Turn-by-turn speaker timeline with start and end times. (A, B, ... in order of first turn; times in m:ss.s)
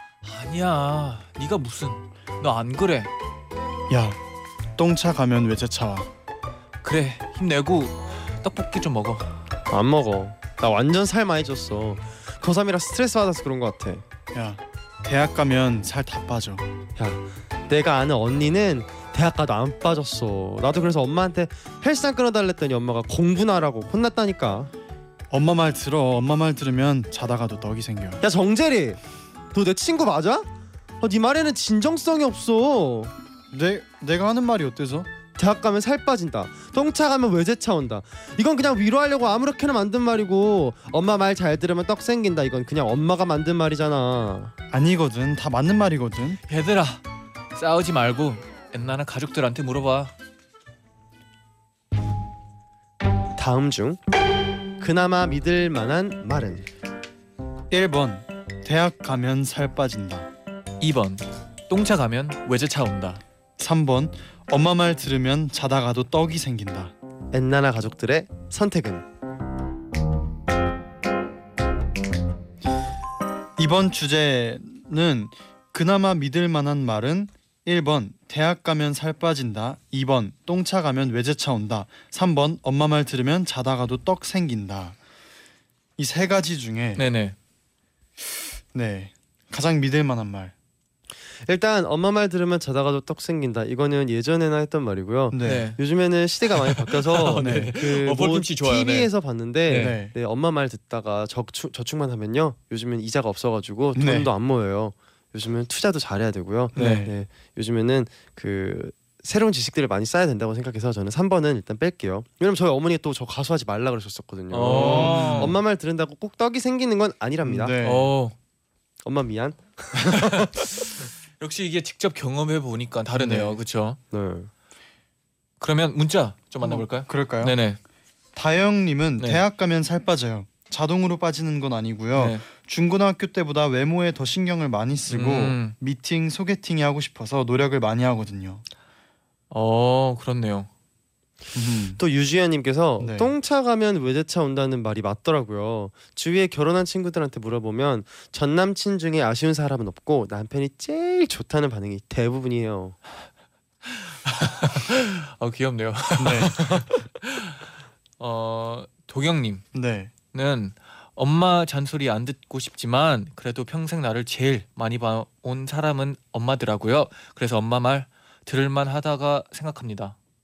0:00.2-0:03.1 A
0:03.9-0:04.2 B
0:04.8-0:06.1 B
0:06.8-0:09.3 A
0:09.7-0:14.0 C
0:14.3-0:16.7 B
0:17.0-0:24.7 C
0:25.3-0:28.2 B
0:28.2-0:29.0 C
0:29.5-0:30.5 C
0:31.0-0:33.1 C
0:33.5-0:35.1 B
0:35.4-0:44.5 C
0:44.7-0:46.4 B
0:46.5-0:47.0 A
0:47.5-0:50.1 A
0:53.4-0:54.0 C
0:54.8-0:56.7 C
0:57.7-1:00.3 B
1:00.8-1:03.2 A
1:03.6-1:06.9 B
1:07.3-1:09.0 C
1:13.6-1:25.0 B
1:26.0-1:27.0 B
1:27.0-1:27.4 A
1:28.7-1:30.5 B
1:31.4-1:57.8 C
1:35.3-1:35.7 B
1:35.4-1:35.8 A
1:36.6-1:39.1 A
1:37.3-1:37.7 B
1:39.7-1:40.0 A
1:39.7-1:40.1 B
1:43.9-1:44.3 B
1:46.7-1:47.1 A
1:46.7-1:47.1 B
1:54.5-1:55.6 A
1:54.6-1:55.6 B
1:57.4-1:58.1 B
1:57.8-1:58.3 A
1:59.0-2:00.7 C
2:00.0-2:04.0 A
2:03.2-2:03.5 B
2:04.1-2:04.5 C
2:05.6-2:07.8 A
2:06.6-2:07.5 B
2:08.3-2:18.6 B
2:12.1-2:12.4 A
2:15.1-2:15.7 A
2:19.5-2:20.7 A
2:21.5-2:22.0 B
2:22.0-2:33.0 C
2:23.0-2:23.3 B
2:33.8-2:39.6 A
2:36.2-2:36.6 B
2:39.7-2:40.1 B
2:40.3-2:50.2 A